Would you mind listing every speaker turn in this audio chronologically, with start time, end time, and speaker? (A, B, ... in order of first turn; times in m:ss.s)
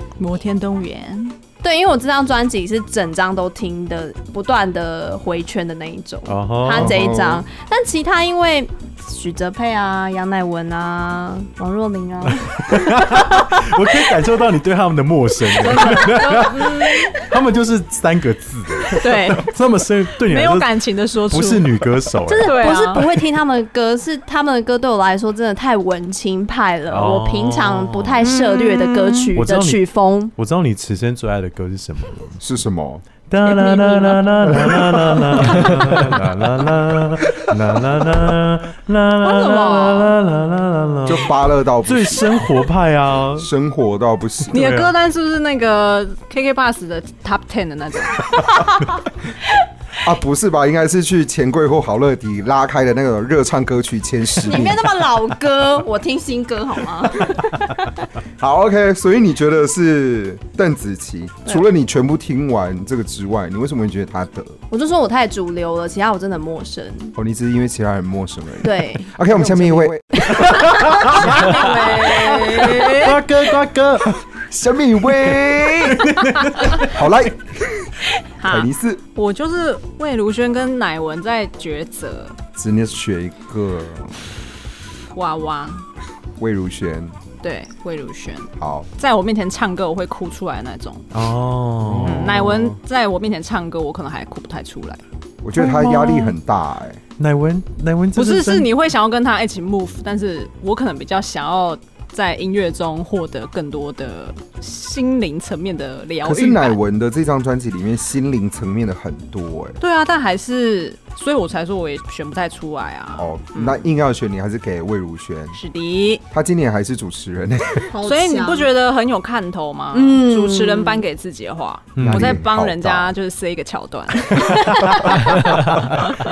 0:00.2-0:01.3 A
0:01.6-0:13.6 B
0:06.2-0:07.2 C
0:06.7-0:07.4 D
0:12.2-0:23.1 C
0:15.6-0:17.1 B
0:15.6-0:16.9 A
0:19.0-0:19.5 A
0:20.2-0:21.8 A
0:22.2-0:30.3 B
0:22.4-0:23.1 A
0:26.9-0:28.4 C
0:28.2-0:29.3 A
0:29.3-0:29.8 C
0:30.4-0:32.4 C
0:32.4-0:33.0 D
0:33.3-0:43.5 C
0:33.5-0:34.2 B
0:34.6-0:35.8 D
0:39.2-0:40.1 B
0:41.0-0:42.4 D
0:43.4-0:44.7 D
0:44.5-0:48.4 A
0:44.5-0:44.9 C
0:50.0-0:54.8 D
0:54.4-0:57.9 B
0:58.4-1:04.6 D
1:04.7-1:07.1 B
1:07.2-1:10.6 D
1:08.6-1:12.1 B
1:10.3-1:11.5 C
1:11.2-1:13.2 A
1:12.1-1:14.2 C
1:14.3-1:19.0 D
1:15.8-1:17.0 C
1:18.4-1:22.4 A
1:22.6-1:24.2 D
1:25.1-1:25.9 A
1:26.4-1:27.1 D
1:27.4-1:31.0 A
1:28.6-1:28.9 D
1:31.1-1:32.5 C
1:31.8-1:32.8 D
1:32.0-1:35.0 A
1:35.4-1:37.0 D
1:35.6-1:36.3 B
1:37.2-1:38.7 C
1:38.1-1:46.8 A
1:46.2-1:49.8 D
1:49.8-1:53.8 A
1:53.2-1:55.6 D
1:55.5-1:56.2 A
1:56.3-1:57.9 D
1:57.9-1:58.7 B
1:58.0-2:05.2 A
1:59.9-2:01.0 B
2:02.0-2:02.4 C
2:02.0-2:03.1 D